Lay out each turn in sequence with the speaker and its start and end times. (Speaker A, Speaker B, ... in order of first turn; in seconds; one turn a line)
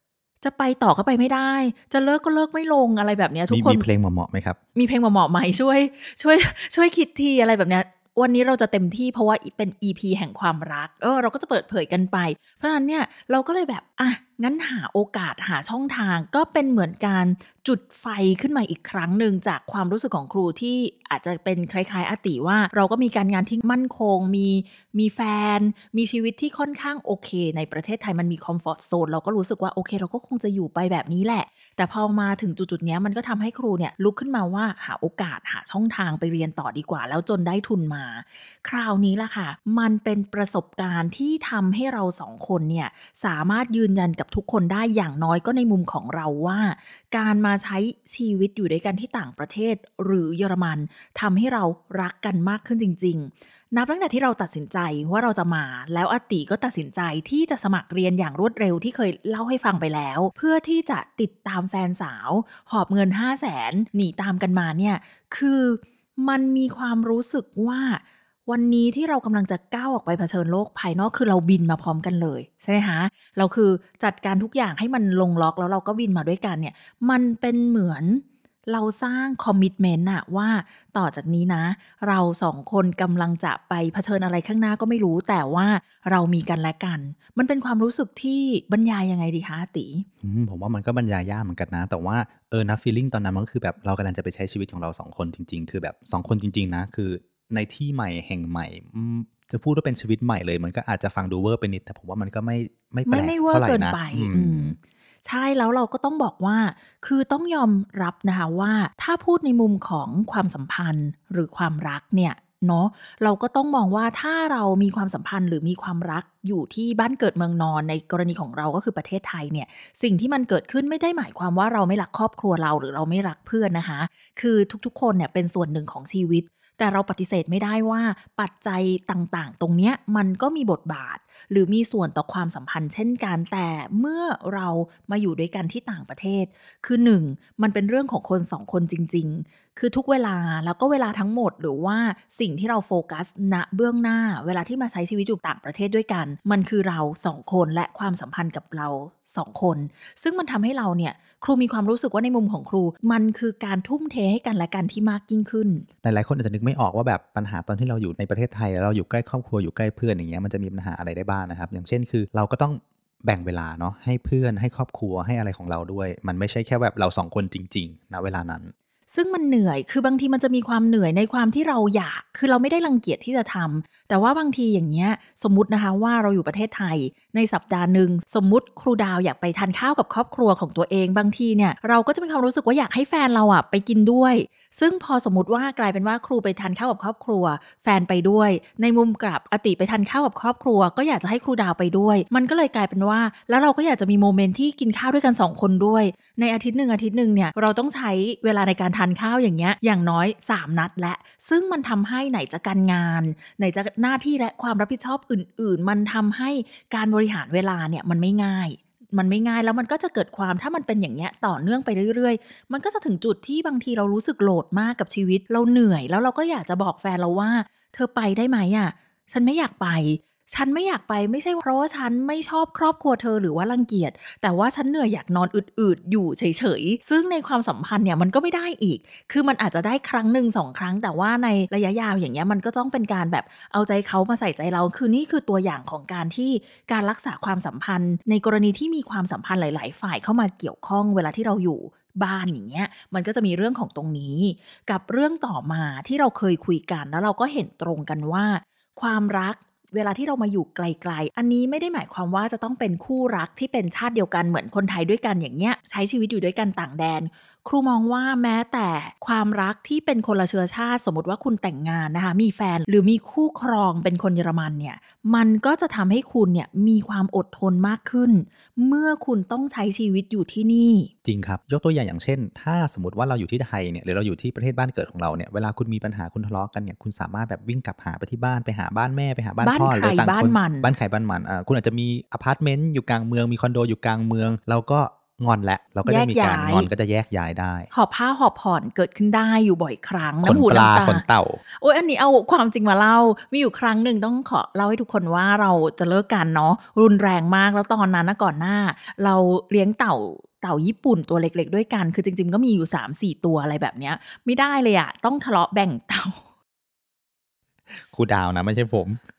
Speaker A: 0.4-3.9
Speaker B: 3.5-4.6
Speaker A: 4.8-90.1
Speaker B: 90.2-104.8
Speaker A: 103.1-155.9
Speaker B: 156.0-168.7
Speaker A: 169.1-271.1
Speaker B: 271.2-287.9
Speaker A: 279.6-280.9
Speaker A: 286.1-286.9
Speaker A: 287.9-291.2
Speaker B: 290.4-291.6
Speaker A: 291.8-306.4
Speaker B: 307.9-309.2